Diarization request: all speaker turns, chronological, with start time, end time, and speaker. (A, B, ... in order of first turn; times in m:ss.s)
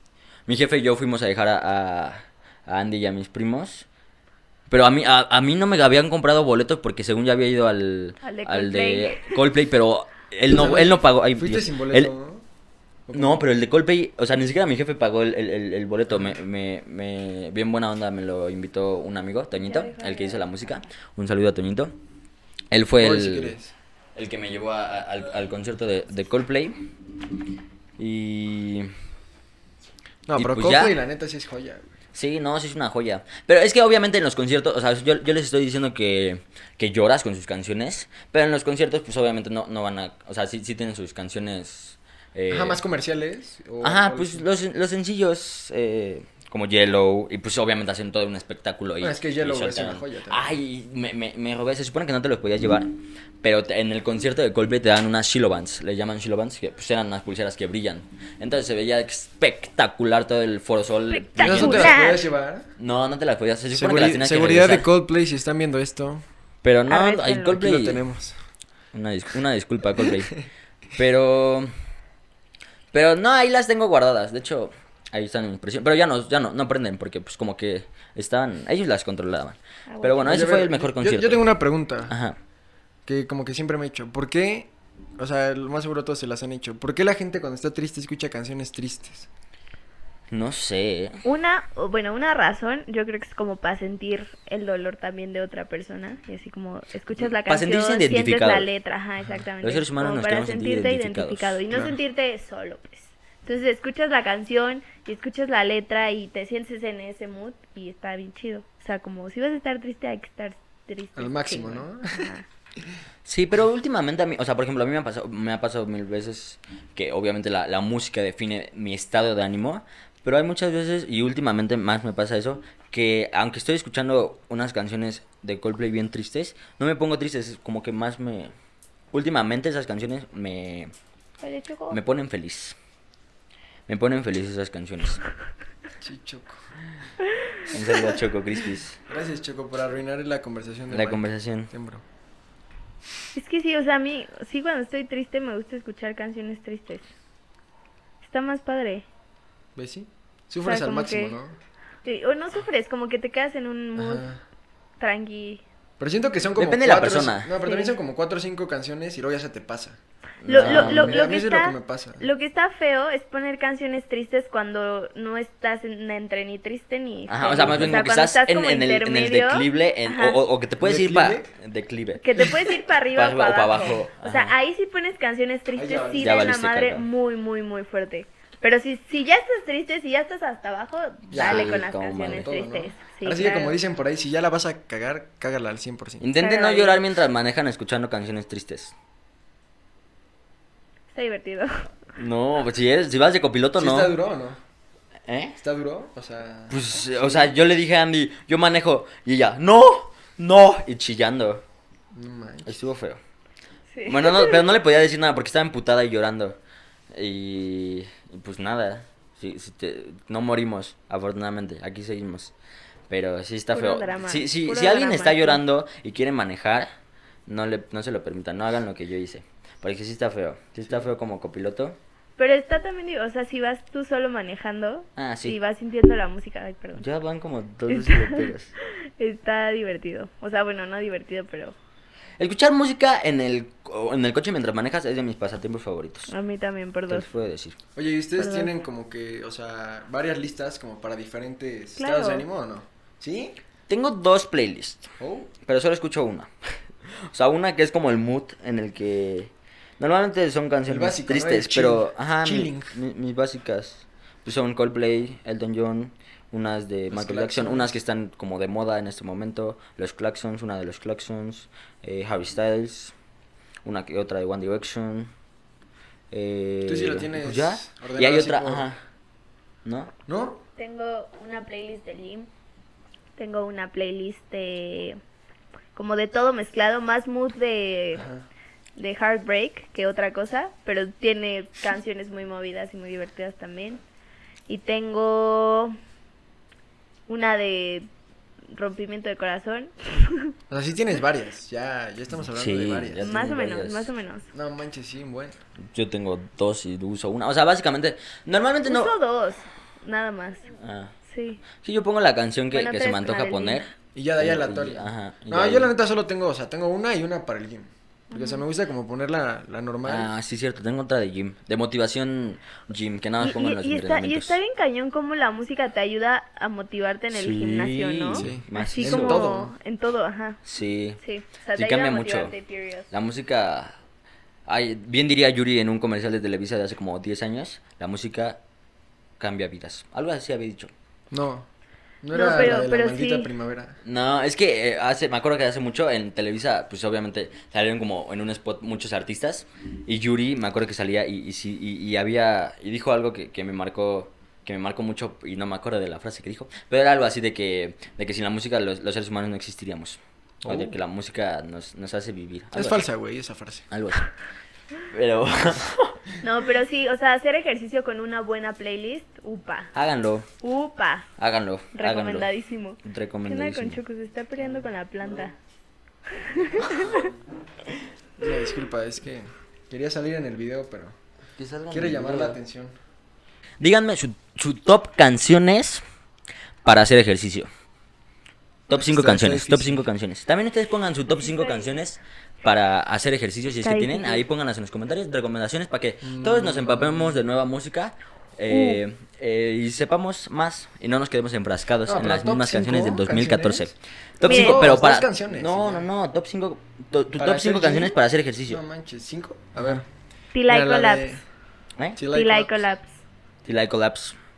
0:00.5-0:03.9 A
0:04.7-0:12.1 A
0:08.2-0:09.4 B
0:10.5-0:12.4 C
0:13.1-0:13.4 C
0:13.1-0:21.9 A
0:19.6-0:20.9 B
0:22.7-0:23.6 A
0:23.0-0:23.7 C
0:24.2-0:26.8 A
0:28.0-0:28.9 A
0:30.3-0:31.9 C
0:30.4-0:31.0 A
0:32.1-0:42.8 A
0:42.5-0:44.4 C
0:43.8-1:02.0 A
0:49.0-0:50.5 C
1:01.1-1:02.2 B
1:01.4-1:02.7 C
1:02.8-1:04.9 A
1:03.7-1:06.2 C
1:06.6-1:08.0 A
1:06.9-1:07.6 B
1:07.5-1:08.4 C
1:08.9-1:10.4 A
1:11.0-1:11.7 A
1:12.9-1:21.4 A
1:19.9-1:20.3 B
1:20.2-1:22.2 C
1:22.1-1:22.4 A
1:23.1-1:29.3 C
1:30.3-1:31.2 A
1:31.2-1:52.5 B
1:37.2-1:38.7 A
1:39.6-1:41.6 A
1:51.2-1:52.3 C
1:53.2-2:08.5 A
2:09.1-2:10.9 A
2:11.4-2:12.0 B
2:11.9-2:12.8 A
2:13.9-2:15.2 A
2:16.0-2:16.6 C
2:17.7-2:19.0 A
2:17.9-2:18.2 C
2:19.1-2:22.0 C
2:20.9-2:21.7 A
2:23.3-2:27.1 B
2:28.2-2:29.0 B
2:29.8-2:31.6 C
2:30.6-2:31.4 B
2:32.0-2:34.2 B
2:34.0-2:34.4 C
2:35.0-2:35.6 B
2:36.0-2:40.0 C
2:36.6-2:37.5 A
2:37.6-2:37.9 B
2:40.4-2:41.2 A
2:40.5-2:50.4 B
2:40.5-2:42.3 C
2:47.3-2:52.5 A
2:50.8-2:51.5 C
2:52.2-3:03.8 B
2:53.1-2:54.5 A
2:55.7-2:56.4 C
2:56.2-2:57.1 A
3:01.3-3:06.3 C
3:01.3-3:02.5 A
3:06.2-3:08.9 A
3:06.4-3:07.0 B
3:11.1-3:11.8 B
3:12.2-3:14.1 A
3:13.8-3:14.6 C
3:15.3-3:15.6 A
3:15.6-3:17.5 C
3:16.7-3:21.6 A
3:22.1-3:22.8 C
3:22.7-3:23.2 A
3:23.9-3:24.6 B
3:24.1-3:26.6 A
3:27.1-3:32.5 A
3:33.1-3:36.9 A
3:33.7-3:35.6 B
3:37.5-3:42.0 A
3:42.4-3:47.0 B
3:45.2-3:45.6 A
3:47.0-3:48.7 A
3:47.9-3:48.5 B
3:49.2-3:51.8 B
3:52.4-3:56.3 A
3:56.3-3:57.3 B
3:57.1-3:57.8 A
3:58.0-4:03.6 C
3:58.4-3:58.7 B
4:02.0-4:02.5 B
4:03.9-4:05.1 A
4:05.2-4:05.5 C
4:05.6-4:06.5 A
4:07.2-4:23.1 A
4:10.9-4:13.0 C
4:17.1-4:18.0 C
4:23.8-4:25.3 A
4:26.3-4:29.0 A
4:26.9-4:28.9 C
4:29.8-4:30.1 A
4:30.3-4:30.6 C
4:30.8-4:32.5 B
4:33.4-4:35.2 B
4:36.0-4:38.3 B
4:38.2-4:38.4 C
4:39.0-4:44.0 B
4:44.7-4:46.0 B
4:47.3-4:48.1 B
4:48.7-4:50.5 B
4:50.7-4:53.2 C
4:52.5-4:54.1 A
4:53.2-4:54.5 B
4:54.5-4:55.6 C
4:55.9-4:59.1 A
4:58.8-5:00.7 B
5:00.8-5:01.1 A
5:01.3-5:01.6 B
5:01.8-5:05.9 A
5:02.7-5:03.8 B
5:04.2-5:10.3 C
5:08.3-5:08.6 B
5:10.0-5:14.6 A
5:13.4-5:20.6 B
5:17.3-5:19.5 A
5:18.4-5:19.7 C
5:20.6-5:21.2 A
5:21.2-5:23.1 B
5:21.8-5:22.5 A
5:23.1-5:23.9 A
5:24.7-5:28.6 A
5:29.4-5:30.9 A
5:31.3-5:31.7 C
5:32.2-5:34.0 C
5:32.3-5:33.5 B
5:34.0-5:53.0 A
5:50.6-5:51.0 C
5:52.7-5:53.8 C
5:53.9-5:54.3 A
5:55.1-5:56.2 A
5:56.4-5:59.9 B
6:00.0-6:00.5 A
6:00.6-6:01.3 B
6:01.4-6:02.5 A
6:01.9-6:05.6 B
6:03.0-6:04.0 A
6:06.3-6:07.3 B
6:06.8-6:07.3 C
6:08.4-6:11.2 C
6:11.6-6:12.6 A
6:11.9-6:12.9 C
6:13.8-6:16.0 A
6:16.8-6:17.7 A
6:18.9-6:38.8 A
6:18.9-6:20.1 C
6:21.4-6:21.9 B
6:23.8-6:24.4 B
6:26.2-6:27.4 C
6:28.7-6:29.0 B
6:32.1-6:33.9 C
6:34.4-6:36.1 C
6:34.4-6:34.8 B
6:37.4-6:38.1 C
6:38.7-6:40.1 C
6:40.5-6:41.4 B
6:40.7-6:41.4 C
6:42.2-6:42.8 C
6:42.3-6:43.2 B
6:43.6-6:44.4 A